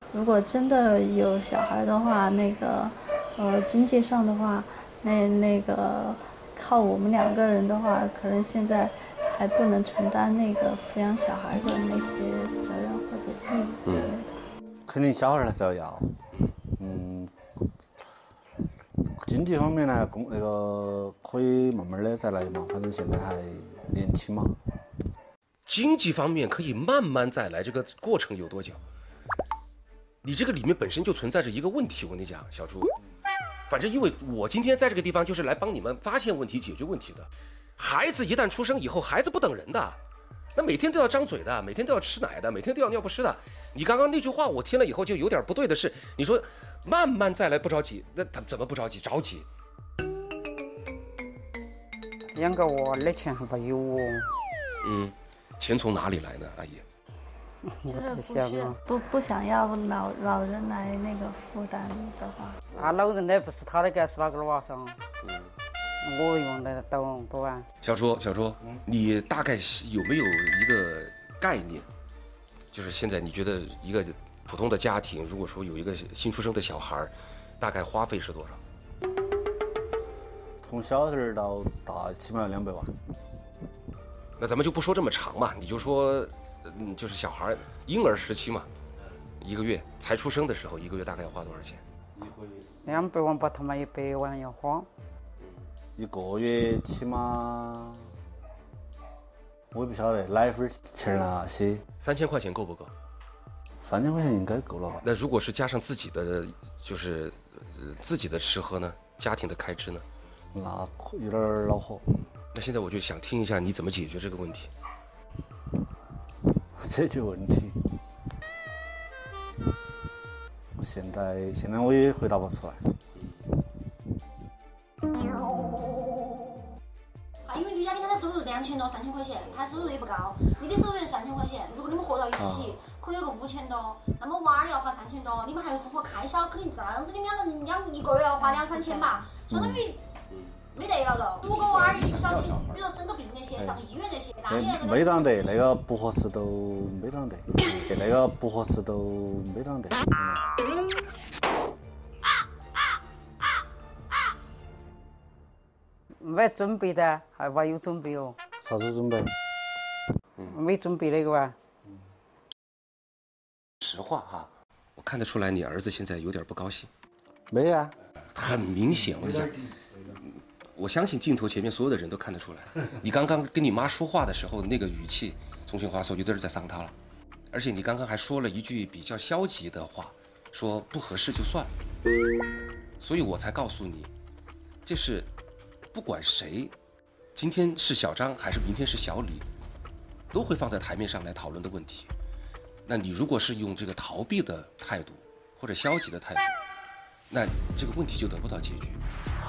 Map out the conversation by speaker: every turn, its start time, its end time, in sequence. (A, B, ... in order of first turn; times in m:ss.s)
0:00.1-0:14.3 A
0:13.9-0:14.1 B
0:14.9-0:16.1 C
0:16.8-0:17.4 C
0:19.2-0:24.6 C
0:25.7-0:28.8 B
0:30.2-0:32.9 B
0:33.7-0:40.0 B
0:40.6-0:49.5 B
0:52.4-0:54.3 D
0:54.8-0:56.8 B
0:57.6-0:58.8 D
0:57.9-1:02.6 A
1:02.8-1:05.0 D
1:05.2-1:05.5 B
1:06.0-1:07.7 D
1:07.8-1:11.9 B
1:12.7-1:18.6 B
1:20.6-1:23.0 C
1:24.4-1:28.7 B
1:29.4-1:31.8 B
1:32.2-1:33.1 C
1:32.9-1:34.9 D
1:36.0-1:38.1 C
1:39.7-1:41.8 C
1:42.0-1:42.9 B
1:43.8-1:45.0 C
1:45.0-1:50.0 B
1:50.5-1:52.1 C
1:52.5-1:54.7 B
1:56.8-1:58.0 C
2:00.8-2:03.0 C
2:07.5-2:20.0 E
2:12.4-2:12.8 C
2:19.5-2:19.9 C
2:20.7-2:25.4 E
2:21.4-2:22.8 B
2:23.6-2:23.8 C
2:24.5-2:30.4 C
2:36.2-2:38.4 D
2:38.6-2:39.4 C
2:40.5-2:41.6 D
2:43.8-2:46.9 B
2:47.5-2:48.0 C
2:48.4-2:49.6 B
2:48.9-2:50.2 C
2:50.3-2:56.9 B
2:57.5-3:01.7 B
3:03.0-3:04.1 B
3:04.8-3:05.3 B
3:05.9-3:06.7 B
3:07.4-3:09.5 B
3:10.3-3:12.1 B
3:12.9-3:16.5 B
3:17.3-3:19.0 B